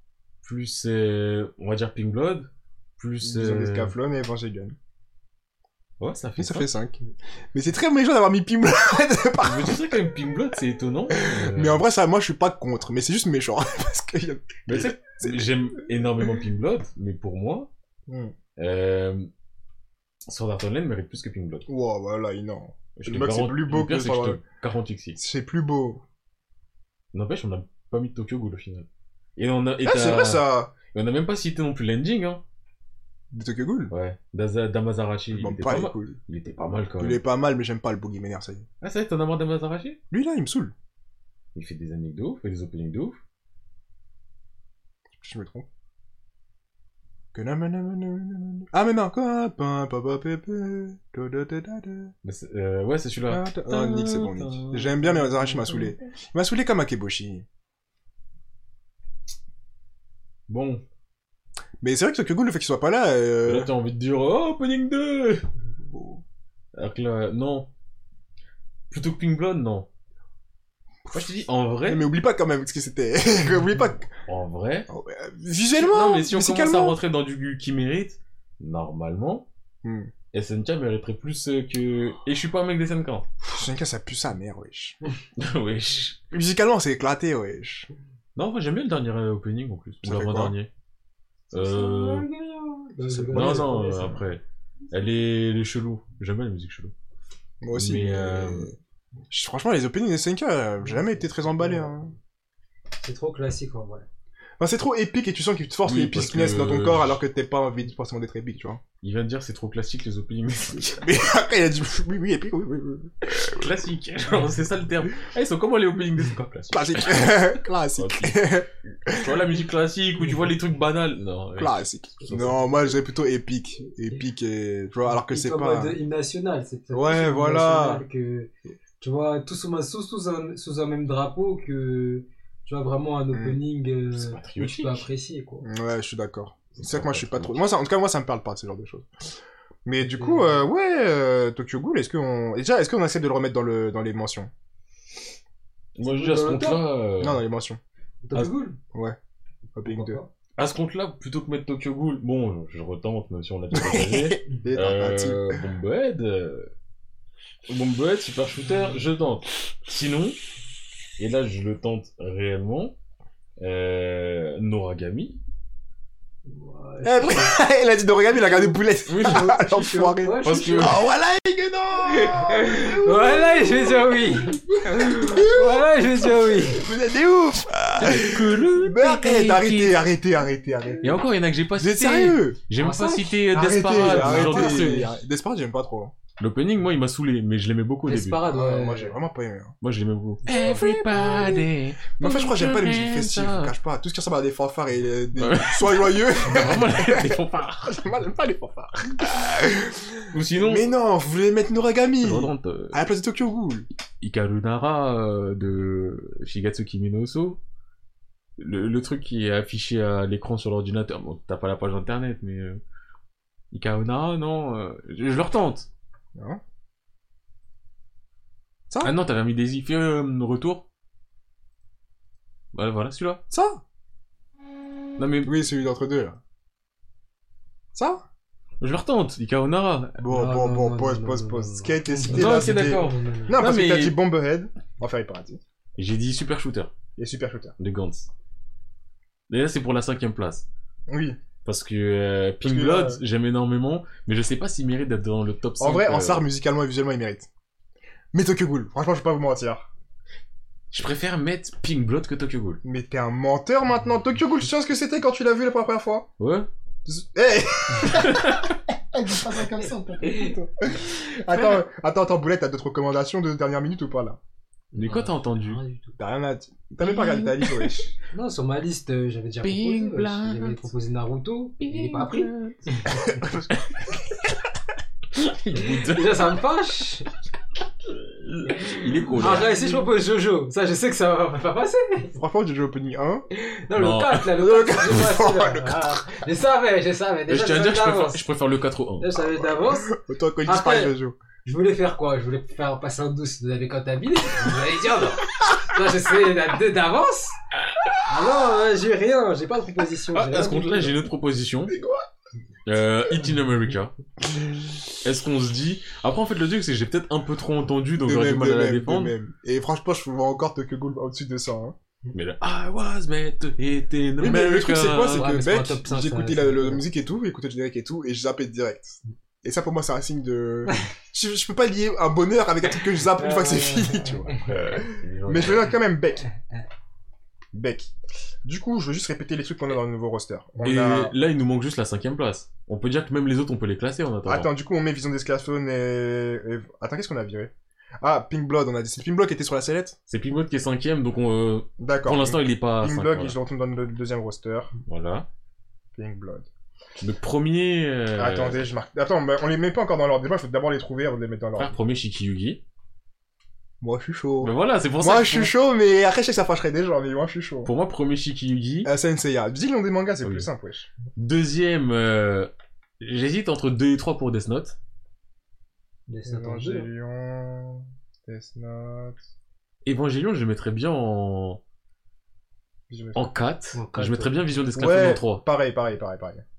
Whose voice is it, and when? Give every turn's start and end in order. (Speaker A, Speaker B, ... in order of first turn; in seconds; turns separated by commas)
Speaker A: 0.4-3.9, Speaker B: 3.2-4.8, Speaker A: 6.0-6.7, Speaker B: 6.4-7.0, Speaker B: 7.5-10.0, Speaker A: 9.4-11.8, Speaker B: 11.1-15.4, Speaker A: 14.7-17.7, Speaker B: 18.1-18.4, Speaker A: 18.6-19.3, Speaker A: 20.3-21.6, Speaker B: 21.7-24.4, Speaker A: 23.0-25.2, Speaker B: 25.2-26.0, Speaker A: 27.1-32.4, Speaker B: 29.8-30.7, Speaker B: 33.3-33.9, Speaker A: 33.9-37.2, Speaker B: 35.3-36.2, Speaker B: 37.0-38.7, Speaker A: 38.8-40.0, Speaker B: 40.1-40.7, Speaker A: 41.5-43.2, Speaker B: 45.1-45.7, Speaker B: 47.3-52.1, Speaker A: 52.2-56.0, Speaker B: 53.3-57.5, Speaker A: 60.5-60.8, Speaker B: 61.8-63.7, Speaker A: 63.5-65.4, Speaker B: 65.9-66.2, Speaker A: 66.8-67.7, Speaker A: 68.9-69.9, Speaker B: 71.1-74.1, Speaker A: 71.1-72.1, Speaker A: 74.3-74.9, Speaker B: 74.9-77.0, Speaker A: 75.8-79.5, Speaker B: 79.8-80.1, Speaker A: 80.3-83.3, Speaker B: 83.4-85.0, Speaker A: 85.4-86.2, Speaker B: 86.3-87.9, Speaker A: 88.4-90.7, Speaker B: 90.0-90.5, Speaker A: 91.5-92.3, Speaker C: 91.6-94.2, Speaker B: 93.0-93.9, Speaker A: 93.3-96.9, Speaker B: 97.6-98.8, Speaker A: 97.7-98.7, Speaker B: 99.3-102.1, Speaker C: 100.8-101.9, Speaker C: 103.0-104.1, Speaker B: 104.6-108.8, Speaker A: 105.9-107.2, Speaker A: 109.0-111.0, Speaker B: 110.8-113.7, Speaker A: 113.3-117.4, Speaker B: 116.7-119.4, Speaker A: 118.0-122.6, Speaker B: 121.6-126.0, Speaker C: 125.1-135.7, Speaker B: 126.9-128.0, Speaker B: 133.3-133.6, Speaker A: 134.1-135.1, Speaker B: 135.6-139.1, Speaker A: 136.8-137.6, Speaker B: 139.8-144.5, Speaker C: 140.0-140.6, Speaker A: 146.0-147.4, Speaker C: 146.0-146.8, Speaker B: 147.2-147.8, Speaker C: 148.3-148.8, Speaker B: 149.7-150.2, Speaker C: 149.8-150.3, Speaker A: 150.6-156.7, Speaker B: 153.7-155.6, Speaker A: 157.7-160.4, Speaker A: 161.2-162.9, Speaker A: 163.6-165.4, Speaker C: 166.5-167.6, Speaker B: 167.0-181.2, Speaker C: 168.3-171.0, Speaker A: 169.1-169.5, Speaker A: 170.4-171.0, Speaker C: 172.0-176.9, Speaker A: 178.0-180.0, Speaker A: 181.0-185.1, Speaker B: 181.8-182.6, Speaker C: 182.8-185.2, Speaker B: 183.5-186.1, Speaker A: 186.4-188.5, Speaker C: 188.1-189.2, Speaker B: 188.5-189.8, Speaker A: 189.8-193.7, Speaker C: 190.5-191.6, Speaker B: 190.7-191.6, Speaker B: 192.2-203.9, Speaker A: 195.4-198.0, Speaker A: 200.3-200.9, Speaker A: 202.2-203.0, Speaker A: 204.2-207.6, Speaker A: 208.6-212.8, Speaker A: 213.7-215.9, Speaker A: 219.0-220.8, Speaker A: 222.7-223.4, Speaker B: 223.5-223.8, Speaker A: 225.2-225.6, Speaker B: 225.4-226.4, Speaker B: 227.9-228.2, Speaker A: 228.8-230.2, Speaker B: 230.2-235.6, Speaker C: 230.3-233.6, Speaker A: 232.3-234.1, Speaker A: 236.0-236.9, Speaker B: 237.2-237.7, Speaker A: 237.8-238.3, Speaker A: 239.5-240.7, Speaker B: 241.1-241.4, Speaker A: 241.7-246.4, Speaker B: 242.6-243.2, Speaker B: 245.8-247.5, Speaker B: 248.3-249.9, Speaker A: 250.9-252.8, Speaker B: 252.8-256.3, Speaker A: 256.4-256.7, Speaker B: 257.1-264.4, Speaker A: 258.0-258.8, Speaker C: 260.2-260.6, Speaker A: 261.5-261.8, Speaker C: 264.9-266.2, Speaker A: 265.0-265.8, Speaker B: 266.2-268.1, Speaker A: 267.0-268.0, Speaker C: 268.3-273.4, Speaker A: 269.6-270.9, Speaker A: 271.8-272.8, Speaker B: 273.1-273.7, Speaker A: 275.3-276.4, Speaker C: 275.8-277.3, Speaker A: 278.1-279.9, Speaker C: 278.7-282.4, Speaker B: 282.4-283.4, Speaker C: 283.5-288.4, Speaker A: 283.9-284.6, Speaker B: 284.6-286.2, Speaker A: 287.5-289.3, Speaker C: 289.2-290.1, Speaker B: 289.6-291.4, Speaker C: 290.7-297.6, Speaker C: 298.2-301.2, Speaker A: 300.3-302.0, Speaker B: 302.0-302.2, Speaker A: 302.9-304.1, Speaker A: 305.2-309.3, Speaker B: 308.2-311.9, Speaker A: 312.3-315.5, Speaker B: 314.4-326.4, Speaker C: 315.4-317.1, Speaker C: 323.3-324.8, Speaker A: 324.2-325.9, Speaker B: 327.7-328.1, Speaker B: 328.6-331.3, Speaker A: 330.8-334.7, Speaker B: 334.5-340.2, Speaker A: 340.3-343.6, Speaker B: 342.0-344.9, Speaker A: 345.1-345.5, Speaker B: 346.1-346.7, Speaker A: 347.2-348.8, Speaker B: 348.4-351.9, Speaker A: 351.8-352.8, Speaker B: 354.0-357.9, Speaker A: 354.6-355.7, Speaker A: 357.9-359.1, Speaker B: 359.1-361.1, Speaker A: 360.4-360.7, Speaker A: 361.4-362.7, Speaker A: 363.2-365.0, Speaker C: 366.3-367.1, Speaker B: 366.4-369.4, Speaker A: 370.1-371.8, Speaker B: 373.1-373.5, Speaker A: 373.4-375.6, Speaker C: 373.9-374.7, Speaker B: 375.0-376.6